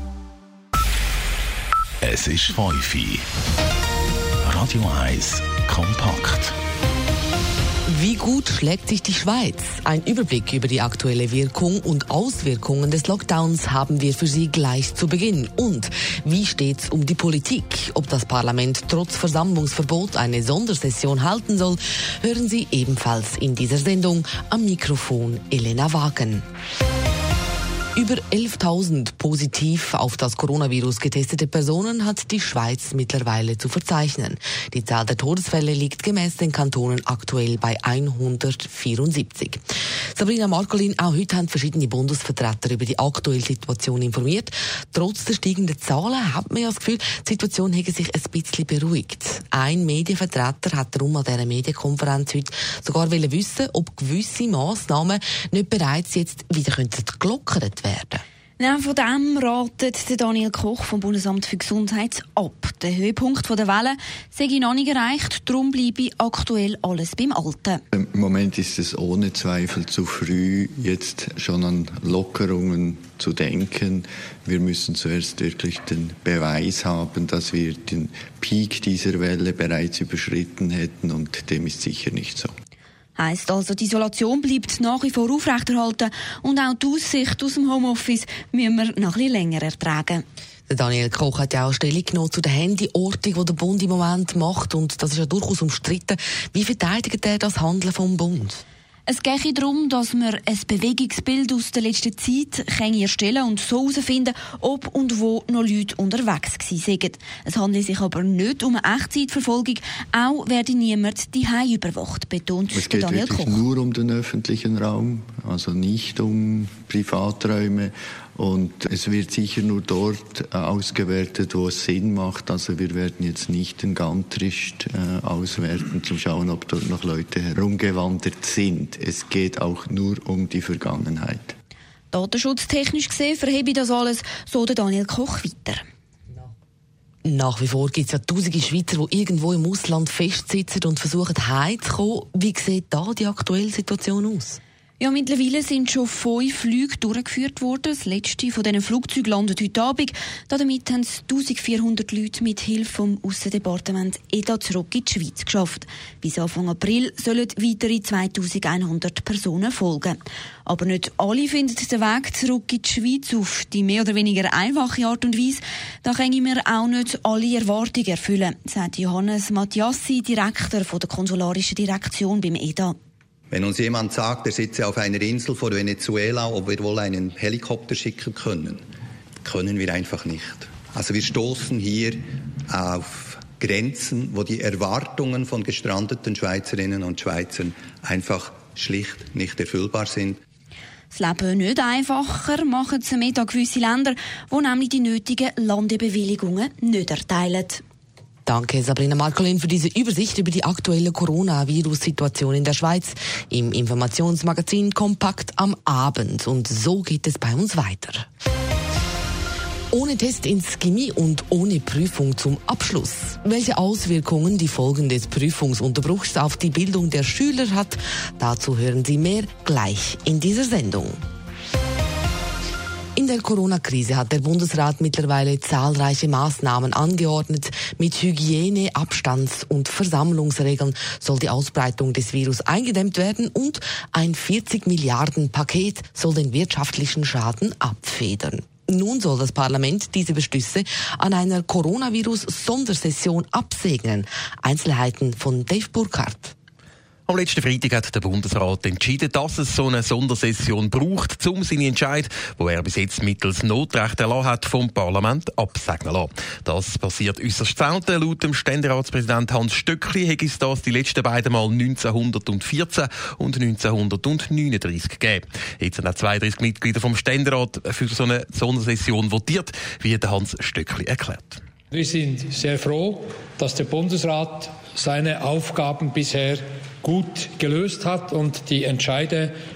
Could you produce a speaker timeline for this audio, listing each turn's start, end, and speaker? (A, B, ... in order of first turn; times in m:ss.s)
0:02.0-0:03.2 A
0:04.4-0:06.5 A
0:07.9-0:26.4 B
0:28.0-0:39.6 B
0:40.1-0:58.2 B
0:58.6-1:07.8 C
1:07.9-1:22.5 D
1:23.2-1:30.2 C
1:30.7-1:38.6 B
1:39.1-1:53.6 C
1:52.7-2:11.5 D
2:12.1-2:15.8 C
2:17.2-2:24.6 B
2:25.0-2:53.0 C
2:53.5-2:58.8 E
2:59.4-3:10.4 E
3:11.1-3:17.8 C
3:18.4-3:28.3 B
3:29.9-3:41.2 B
3:43.2-4:06.5 B
4:07.3-4:31.6 F
4:31.9-4:39.5 G